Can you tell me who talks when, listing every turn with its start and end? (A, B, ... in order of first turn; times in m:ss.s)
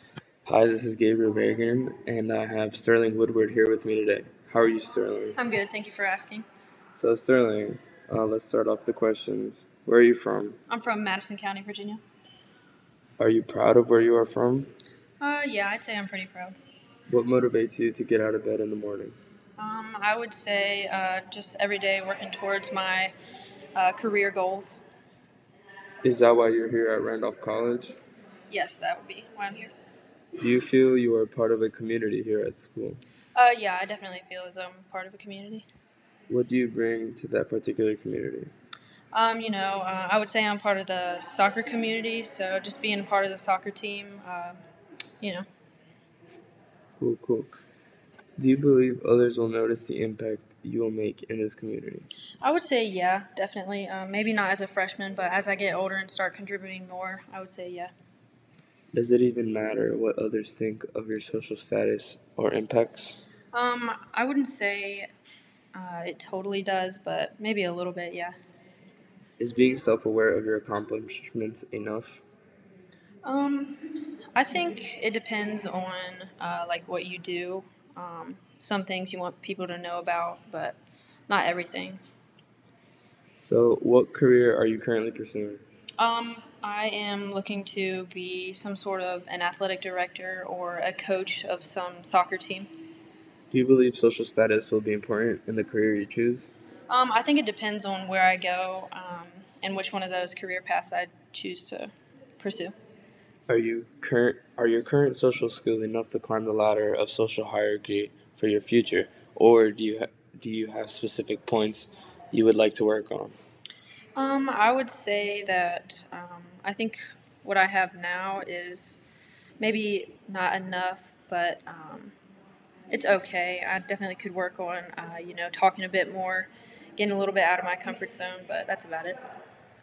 0:00.4-0:05.4 A
0:05.4-0:06.4 B
0:06.9-0:10.6 A
0:10.7-0:12.0 B
0:13.2-0:14.7 A
0:15.2-0:16.5 B
0:17.1-0:19.2 A
0:19.6-0:23.1 B
0:23.7-0:24.8 B
0:26.0-0:28.0 A
0:28.5-0:29.7 B
0:30.4-0:33.0 A
0:33.3-0:35.6 B
0:36.3-0:38.5 A
0:39.1-0:44.6 B
0:47.0-0:47.6 A
0:48.4-0:52.1 A
0:52.4-0:57.9 B
0:58.9-1:03.2 A
1:03.5-1:05.1 B
1:05.7-1:08.3 B
1:09.4-1:12.2 A
1:13.2-1:13.8 B
1:14.3-1:20.8 B
1:21.3-1:22.0 B
1:23.4-1:25.6 A
1:26.0-1:32.7 B
1:33.5-1:36.5 A
1:36.9-1:42.7 B
1:43.5-1:53.3 A
1:54.2-1:59.0 B
1:59.6-2:02.1 B
2:02.9-2:09.2 B